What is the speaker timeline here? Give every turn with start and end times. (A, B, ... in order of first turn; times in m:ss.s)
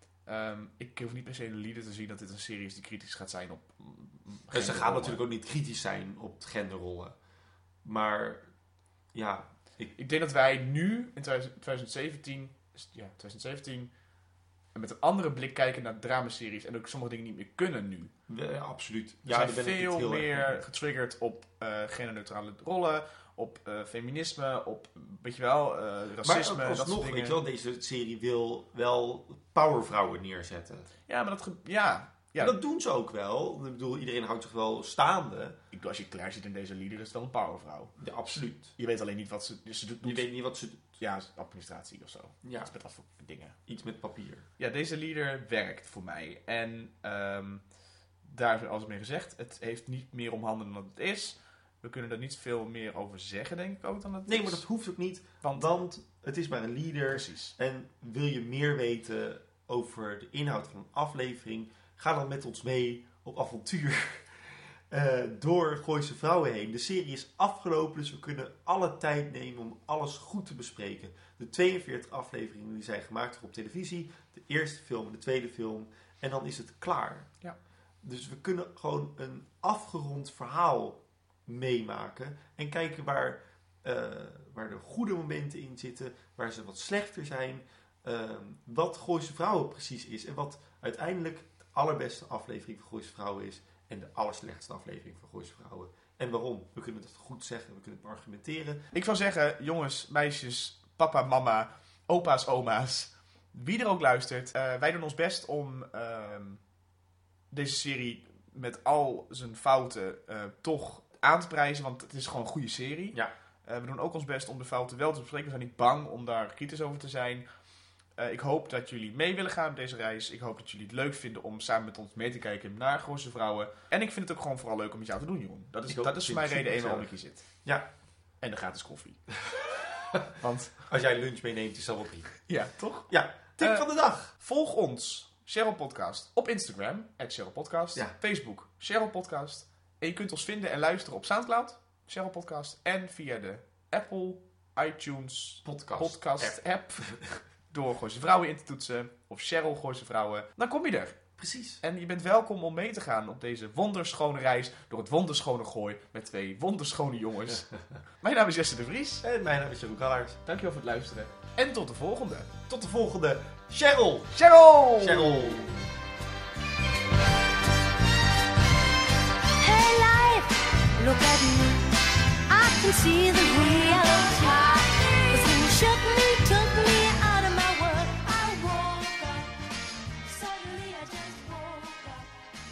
0:00.2-0:05.2 A
0:04.5-0:07.2 B
0:07.8-0:08.5 B
0:09.1-0:09.9 B
0:10.0-0:13.9 A
0:14.7-0:18.1 A
0:18.3-0:20.6 B
0:19.3-0:27.4 A
0:26.2-0:30.9 B
0:31.1-0:32.6 A
0:32.4-0:35.6 B
0:35.7-0:40.3 A
0:38.0-0:38.8 B
0:40.0-0:40.8 B
0:40.9-0:43.6 A
0:42.4-0:42.7 B
0:43.7-0:44.4 B
0:44.6-0:47.6 A
0:48.2-0:54.6 A
0:54.3-1:17.3 B
0:57.1-0:57.5 A
1:18.0-1:38.8 B
1:38.9-1:46.6 A
1:47.5-1:57.4 A
1:58.2-2:07.4 A
2:05.9-2:07.1 B
2:08.4-2:09.3 A
2:10.3-2:10.8 A
2:10.9-2:12.3 B
2:12.5-2:13.8 A
2:13.1-2:14.3 B
2:14.4-2:26.8 A
2:25.6-2:27.4 B
2:27.7-2:31.2 A
2:31.4-2:31.8 B
2:31.8-2:37.7 A
2:38.2-2:39.2 A
2:39.2-2:40.4 B
2:40.4-2:42.5 A
2:42.7-2:44.4 B
2:44.3-2:45.6 A
2:45.0-2:45.8 B
2:49.6-2:59.6 C
3:00.2-3:02.4 C